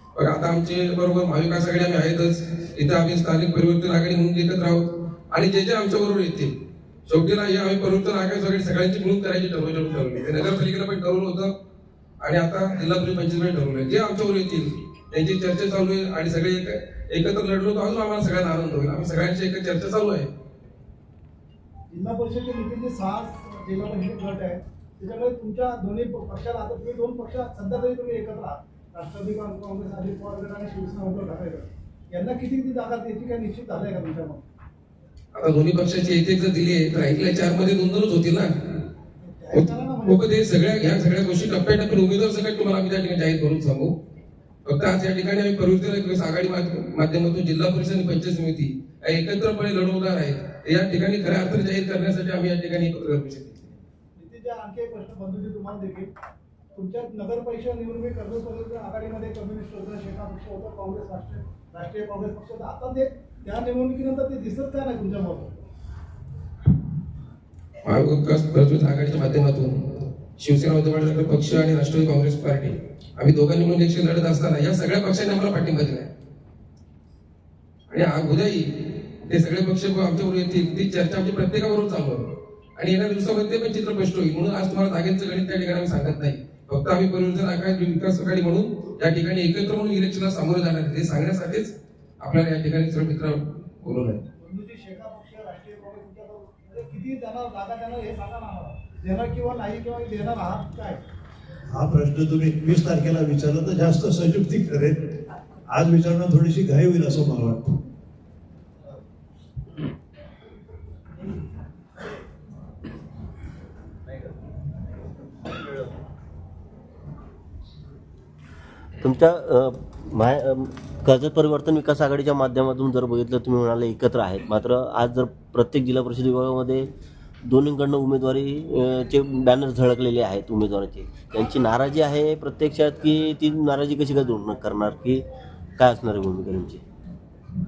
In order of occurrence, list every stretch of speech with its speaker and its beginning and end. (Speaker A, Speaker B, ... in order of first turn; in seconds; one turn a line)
Speaker A: 0.1-6.5
Speaker A: 7.1-11.5
Speaker A: 12.2-20.3
Speaker B: 21.9-34.4
Speaker A: 35.3-38.5
Speaker B: 39.2-40.9
Speaker A: 39.5-43.9
Speaker A: 44.7-53.7
Speaker B: 54.2-56.1
Speaker B: 56.7-65.6
Speaker A: 67.8-69.8
Speaker A: 70.4-76.1
Speaker A: 77.9-94.2
Speaker B: 94.4-101.0
Speaker C: 101.7-105.0
Speaker C: 105.7-107.8
Speaker D: 119.0-126.9
Speaker D: 127.4-135.2
Speaker D: 135.8-136.8